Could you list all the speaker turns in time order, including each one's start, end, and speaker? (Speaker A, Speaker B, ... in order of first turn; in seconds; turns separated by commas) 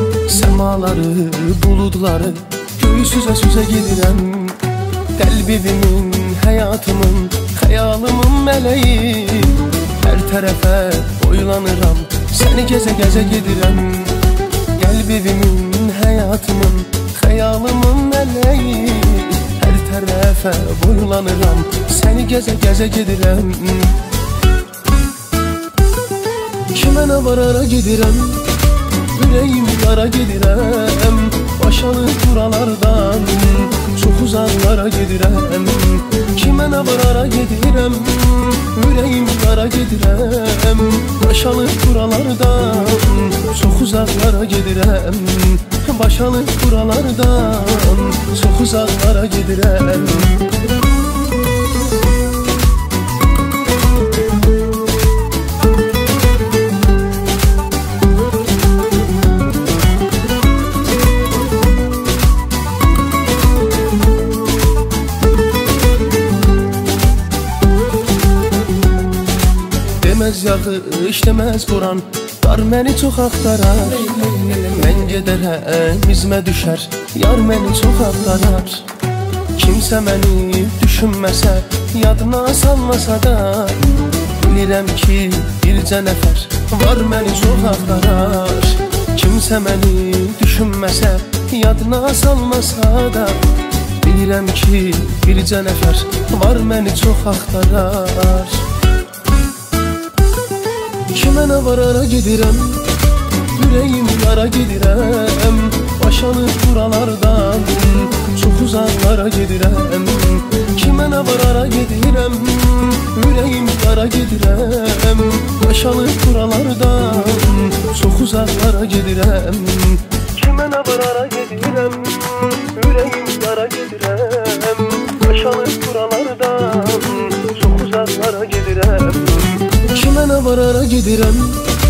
Speaker A: 0.2-24.0, Speaker A: 26.7-50.5, Speaker A: 70.0-78.9, Speaker A: 79.5-93.5, Speaker A: 94.0-98.7, Speaker A: 101.1-102.9, Speaker A: 103.5-131.7